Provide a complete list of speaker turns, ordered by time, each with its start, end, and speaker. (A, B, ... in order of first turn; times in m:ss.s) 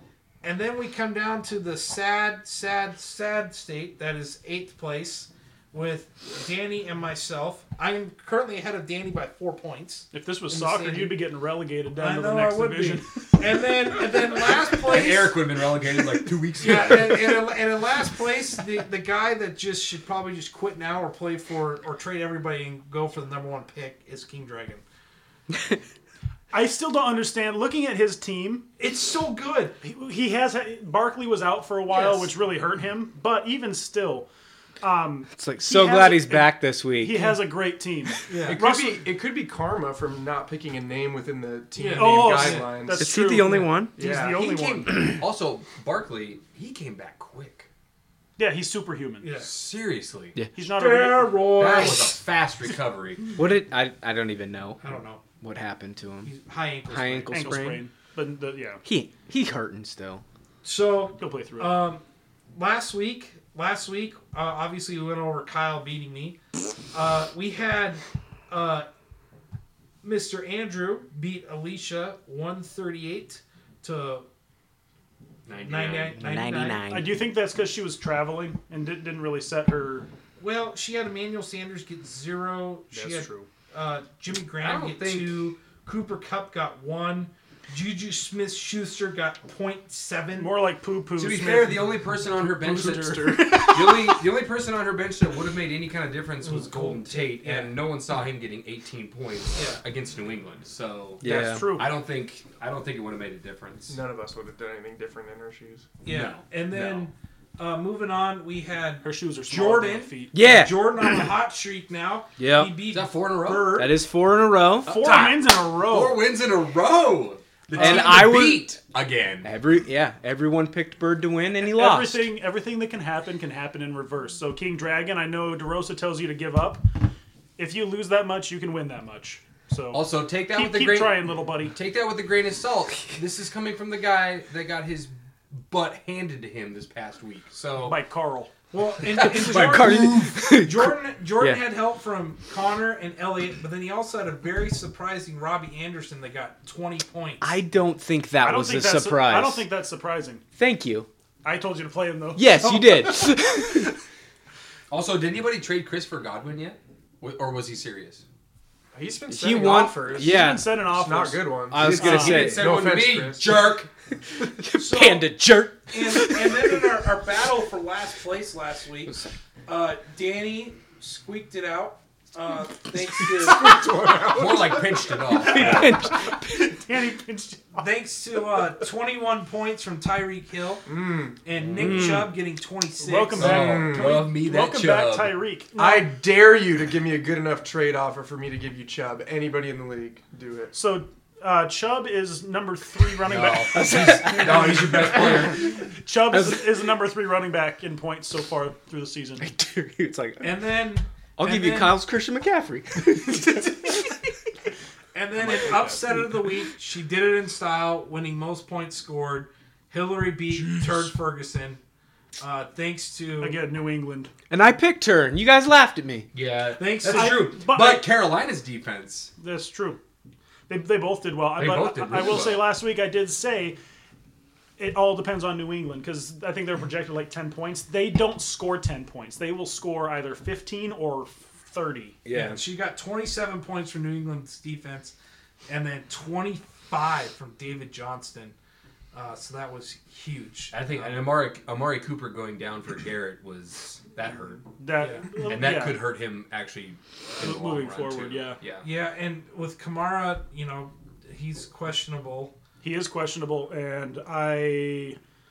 0:00.4-0:11.2 A
0:10.1-0:13.2 B
0:12.0-0:15.4 A
0:14.8-0:17.4 C
0:16.6-0:24.8 A
0:26.5-0:28.6 B
0:28.8-0:29.8 A
0:29.8-0:34.3 B
0:31.9-0:32.3 A
0:34.8-0:39.0 B
0:35.3-0:37.4 D
0:38.2-0:38.6 A
0:38.4-0:38.8 C
0:38.5-0:43.2 E
0:41.8-0:42.8 A
0:41.9-0:45.1 B
0:42.9-0:44.0 D
0:43.9-0:44.4 E
0:44.0-0:47.7 C
0:48.4-0:49.3 B
0:49.2-0:49.5 A
0:49.4-0:50.4 C
0:50.5-0:51.5 B
0:50.6-0:52.2 A
0:51.5-0:53.3 C
0:53.4-0:54.8 D
0:54.8-0:55.2 A
0:55.4-0:56.3 D
0:56.2-0:57.6 A
0:56.9-0:57.8 D
0:57.3-0:58.8 B
0:58.8-1:00.2 D
1:00.6-1:02.0 A
1:01.1-1:01.8 B
1:02.5-1:06.4 A
1:06.9-1:08.9 A
1:10.0-1:14.2 A
1:15.4-1:16.2 C
1:15.6-1:16.8 A
1:16.2-1:17.1 D
1:16.8-1:20.1 B
1:20.4-1:30.5 A
1:22.9-1:23.5 B
1:24.6-1:25.4 C
1:30.4-1:33.6 B
1:31.1-1:44.0 C
1:33.1-1:34.1 D
1:36.4-1:37.8 A
1:39.5-1:39.8 A
1:41.2-1:41.7 D
1:41.2-1:41.9 B
1:43.9-1:45.9 E
1:46.0-1:54.0 A
1:46.1-1:47.1 C
1:49.0-1:50.4 B
1:50.3-1:51.1 D
1:52.4-1:52.7 D
1:52.9-1:53.8 C
1:53.7-1:54.9 D
1:54.8-1:56.3 B
1:54.9-1:59.5 C
1:57.7-1:58.7 D
1:57.8-1:58.2 B
1:59.4-2:02.3 D
2:01.6-2:06.8 B
2:07.6-2:11.8 B
2:09.9-2:18.0 C
2:17.7-2:18.5 B
2:18.7-2:27.4 A
2:19.2-2:21.6 D
2:19.3-2:20.0 C
2:27.4-2:29.7 D
2:28.4-2:30.4 B
2:30.6-2:31.1 D
2:31.4-2:32.6 B
2:32.4-2:33.9 D
2:34.9-2:38.2 C
2:38.9-2:43.7 E
2:39.3-2:40.7 D
2:40.1-2:42.4 B
2:41.7-2:42.7 D
2:41.8-2:43.9 C
2:44.4-2:46.9 D
2:44.8-2:45.4 A
2:45.9-2:49.2 A
2:49.1-2:49.3 D
2:49.7-2:53.7 A
2:53.2-2:55.2 E
2:54.2-2:56.0 C
2:55.3-2:57.8 B
2:55.5-2:56.8 D
2:57.8-3:00.9 A
3:00.8-3:01.4 E
3:01.4-3:03.6 A
3:01.7-3:02.1 C
3:01.7-3:02.3 D
3:03.0-3:06.1 B
3:03.3-3:05.5 C
3:03.4-3:04.3 E
3:05.7-3:10.8 E
3:10.7-3:19.5 B
3:13.2-3:15.8 C
3:13.7-3:15.2 D
3:16.3-3:16.8 D
3:19.4-3:20.8 D
3:20.4-3:22.0 A
3:21.4-3:24.2 D
3:25.1-3:31.8 A
3:25.4-3:26.1 B
3:32.4-3:33.6 A
3:33.4-3:34.3 B
3:34.5-3:36.3 D
3:36.3-3:39.3 C
3:36.8-3:37.6 A
3:37.0-3:38.1 B
3:39.4-3:40.0 B
3:40.7-3:43.8 B
3:41.6-3:42.7 C
3:44.8-3:52.2 B
3:52.2-3:52.6 D
3:52.3-3:55.1 A
3:55.7-3:58.5 A
3:59.1-4:01.2 A
4:00.7-4:04.7 C
4:04.8-4:06.0 B
4:05.0-4:05.3 A
4:05.3-4:08.8 C
4:07.4-4:08.6 B
4:08.8-4:12.5 A
4:12.8-4:15.2 B